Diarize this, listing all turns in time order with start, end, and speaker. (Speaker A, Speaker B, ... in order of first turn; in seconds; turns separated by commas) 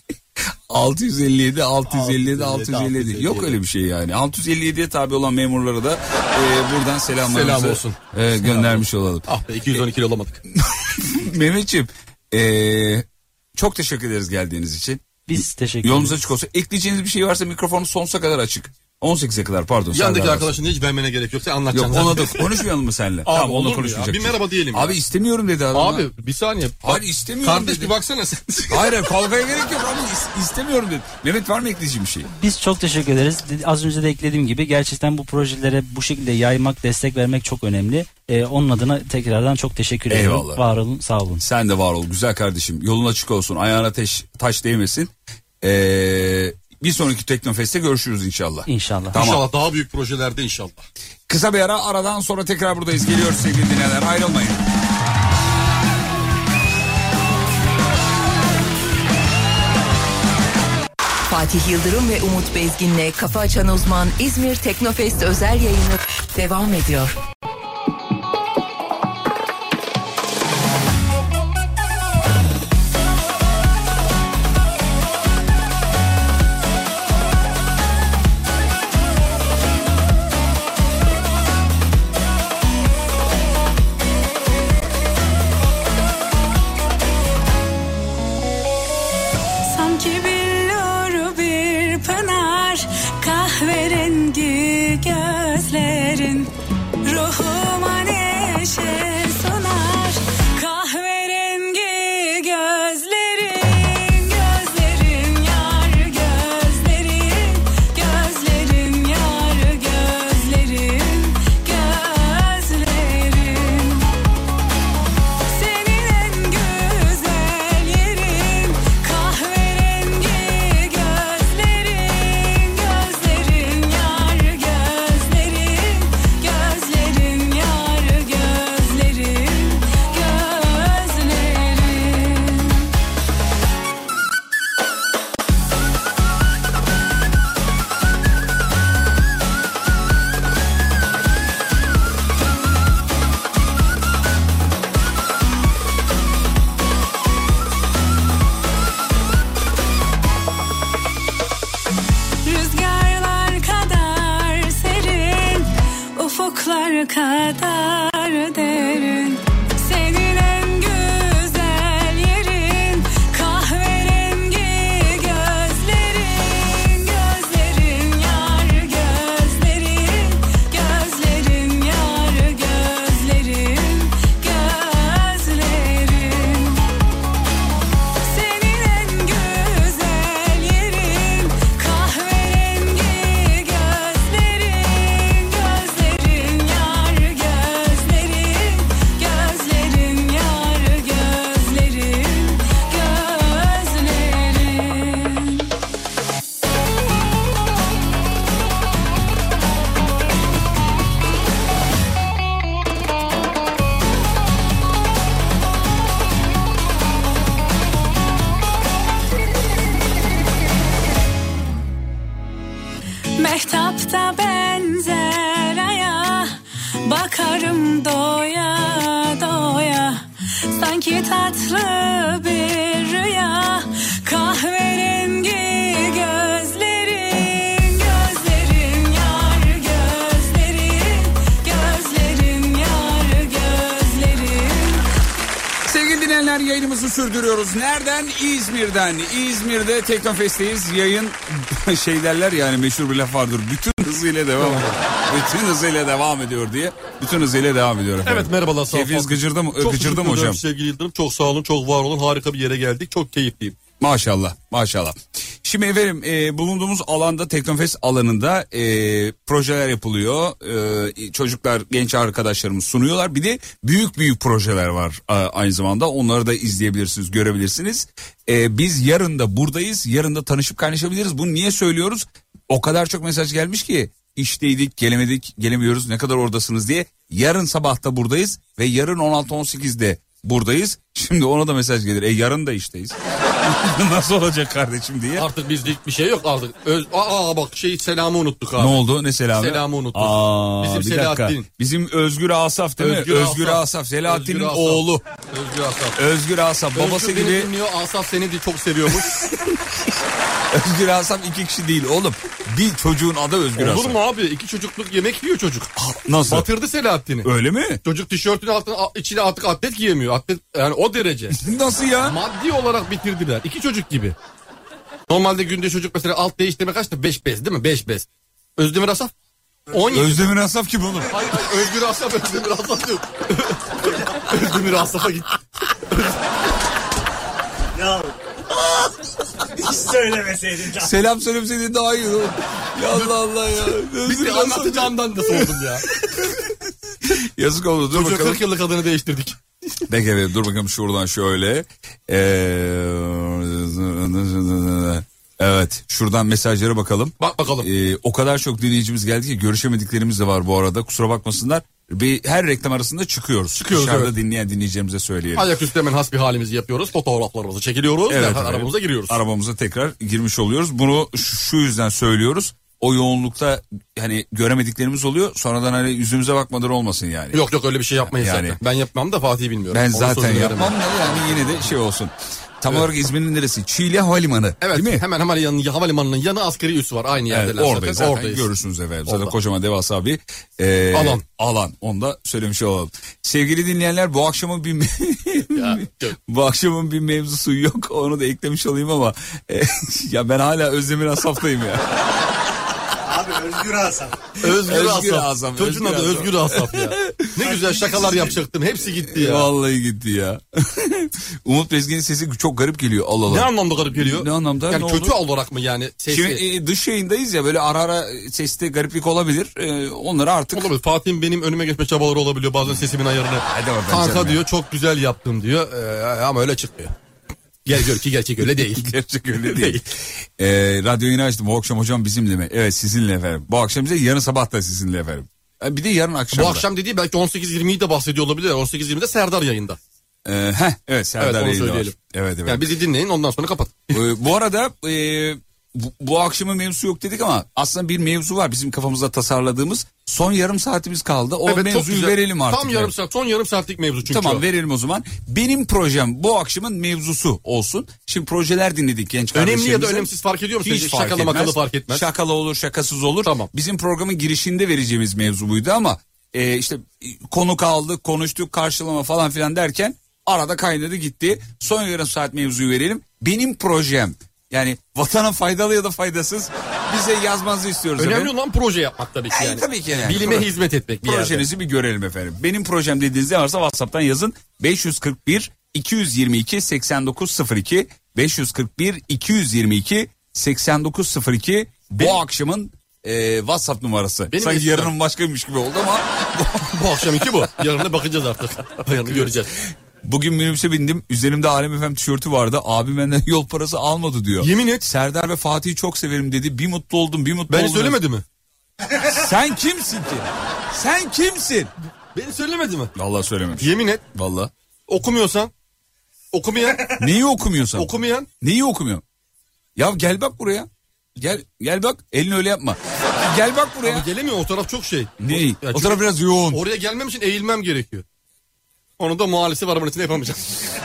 Speaker A: 0.7-9.3, Speaker B: 1.9-3.6, Speaker B: 7.3-10.4, Speaker A: 10.5-20.6, Speaker C: 15.3-16.2, Speaker B: 19.9-22.6, Speaker A: 21.7-26.1, Speaker B: 23.3-25.0, Speaker B: 25.7-29.0, Speaker A: 26.9-27.9, Speaker A: 28.7-32.3, Speaker C: 32.3-41.4, Speaker A: 40.1-40.6, Speaker A: 41.4-49.4, Speaker C: 48.7-49.2, Speaker B: 49.1-50.9, Speaker A: 51.3-54.6, Speaker D: 61.3-67.2, Speaker E: 89.7-96.5, Speaker E: 97.0-114.1, Speaker E: 115.5-132.9, Speaker E: 152.4-176.8, Speaker E: 178.2-195.7, Speaker E: 213.4-235.1, Speaker A: 235.8-250.6, Speaker B: 244.6-245.0, Speaker B: 248.2-253.8, Speaker A: 254.0-285.5, Speaker B: 285.4-289.0, Speaker A: 288.8-295.2, Speaker B: 289.5-291.7, Speaker B: 293.0-296.2, Speaker A: 296.2-297.7, Speaker B: 296.9-299.8, Speaker A: 300.7-304.2, Speaker B: 303.8-305.9, Speaker A: 306.0-306.7, Speaker B: 306.5-307.5, Speaker A: 307.4-308.0, Speaker B: 308.0-311.6, Speaker A: 311.6-312.4, Speaker B: 312.2-314.4, Speaker B: 315.3-319.3, Speaker B: 319.9-320.5, Speaker A: 320.1-321.4, Speaker B: 321.3-325.6, Speaker B: 326.1-326.4, Speaker F: 328.0-328.3, Speaker F: 329.9-331.1, Speaker A: 330.9-338.6, Speaker B: 333.9-336.1, Speaker B: 338.1-339.6, Speaker A: 340.1-355.7, Speaker B: 347.4-347.9, Speaker B: 353.7-354.3, Speaker B: 355.6-359.4, Speaker A: 358.3-367.6, Speaker B: 367.5-371.9, Speaker A: 368.3-368.8, Speaker A: 369.9-375.2, Speaker B: 374.8-378.7, Speaker A: 377.5-392.1, Speaker B: 379.3-379.6, Speaker B: 381.1-381.4, Speaker B: 385.8-386.4, Speaker F: 393.3-394.4, Speaker B: 394.6-399.7, Speaker A: 394.7-398.5, Speaker A: 399.3-405.4, Speaker B: 403.5-406.6, Speaker A: 406.3-410.9, Speaker B: 410.7-417.1, Speaker A: 413.6-414.6, Speaker B: 417.9-420.0, Speaker A: 418.8-420.0, Speaker A: 420.6-426.9, Speaker B: 426.5-430.0, Speaker A: 430.4-432.9, Speaker B: 431.4-432.1, Speaker B: 432.7-434.2, Speaker A: 434.1-443.1, Speaker B: 441.7-444.6, Speaker A: 444.2-450.3, Speaker B: 449.5-452.3, Speaker A: 450.8-468.5, Speaker B: 453.4-453.7, Speaker B: 468.2-471.7, Speaker A: 469.5-470.7, Speaker A: 471.2-487.4, Speaker B: 484.5-485.1, Speaker B: 486.9-489.8, Speaker A: 490.2-498.2, Speaker B: 494.6-495.1, Speaker B: 497.7-498.4, Speaker A: 499.2-501.9, Speaker B: 502.4-503.1, Speaker A: 503.1-504.7, Speaker B: 503.8-504.2, Speaker B: 505.1-505.7, Speaker B: 506.5-507.2, Speaker A: 507.1-509.2, Speaker B: 507.9-508.5, Speaker A: 510.0-514.3, Speaker B: 514.0-518.2, Speaker A: 515.4-516.8, Speaker B: 519.2-520.8